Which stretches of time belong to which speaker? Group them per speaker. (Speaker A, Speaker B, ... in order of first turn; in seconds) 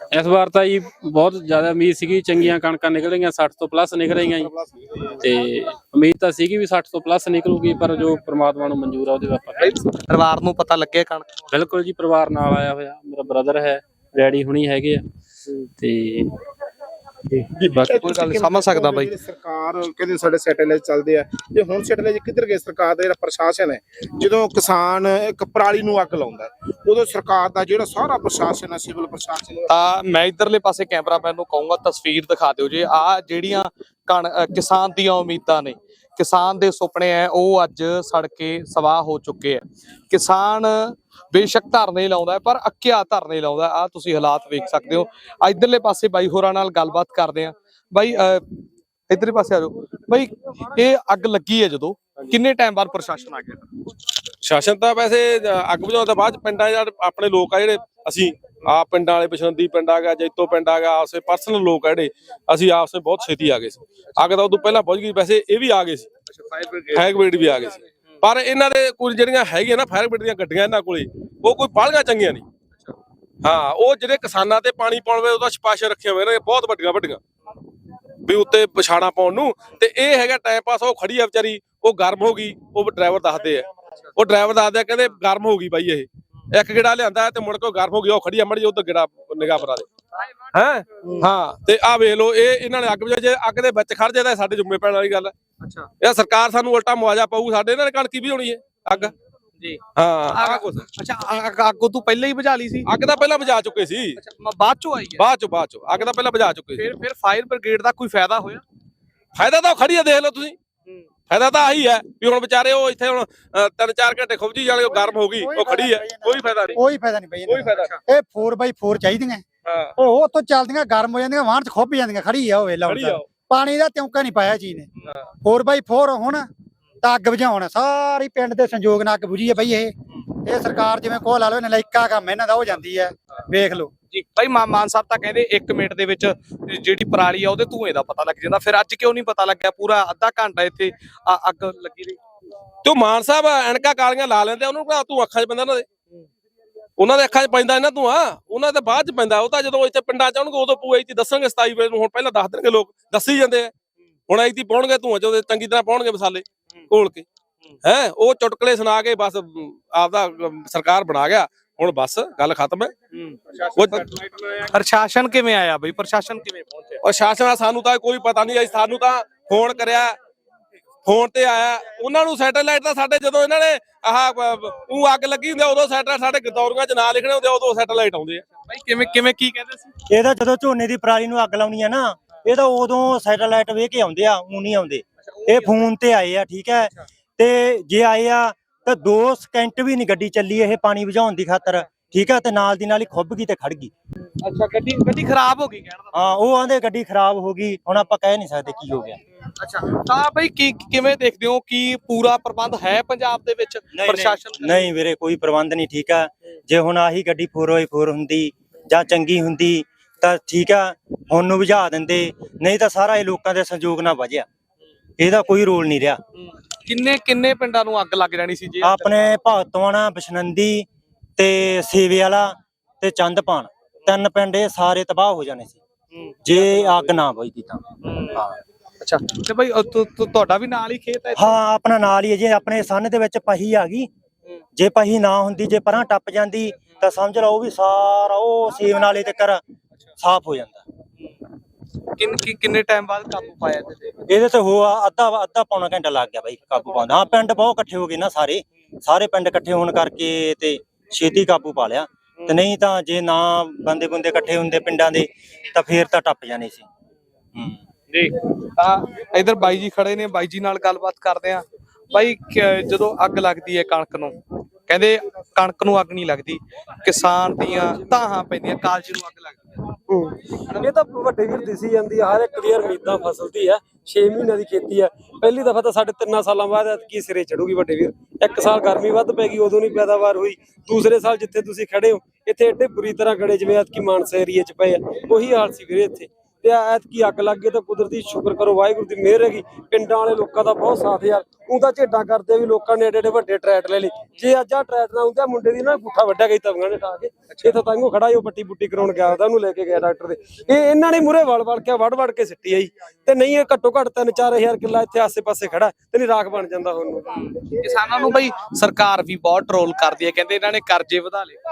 Speaker A: 0.1-4.5, 5.2-9.8, 11.5-15.0, 15.8-16.3, 17.7-17.9
Speaker B: 4.3-4.7, 17.6-29.7
Speaker C: 9.6-11.5, 17.3-19.1, 29.7-48.4, 49.1-53.7, 66.3-67.5, 95.6-95.9, 98.9-99.8, 100.3-102.9, 104.2-105.2, 106.8-108.6, 134.1-142.2, 163.1-163.4, 164.5-167.0, 178.7-179.9, 185.3-185.8, 194.4-196.1, 199.6-204.9, 216.4-219.1, 226.1-227.1, 228.0-228.4, 229.0-231.5, 242.2-244.2, 258.1-269.6, 307.4-311.6
Speaker D: 54.4-66.1, 66.9-72.4, 73.4-77.2, 78.2-89.9, 90.5-95.3, 96.0-99.1, 100.0-100.9, 102.8-104.2, 105.2-106.8, 109.3-110.5, 111.3-116.8, 117.5-117.9, 119.6-119.9, 122.8-123.2, 142.8-145.8, 147.0-153.7, 154.3-157.2, 157.8-162.9, 163.7-164.1, 167.0-170.2, 171.0-178.4
Speaker E: 114.9-119.4, 120.0-124.9, 125.4-126.5, 127.0-129.9, 130.4-133.9
Speaker F: 180.1-193.9, 196.1-199.2, 203.9-214.4, 215.2-216.2, 218.8-220.8, 221.4-225.8, 226.4-227.8, 231.3-234.1, 234.8-239.6, 240.2-240.8, 244.3-256.8
Speaker G: 267.6-268.1, 270.1-307.4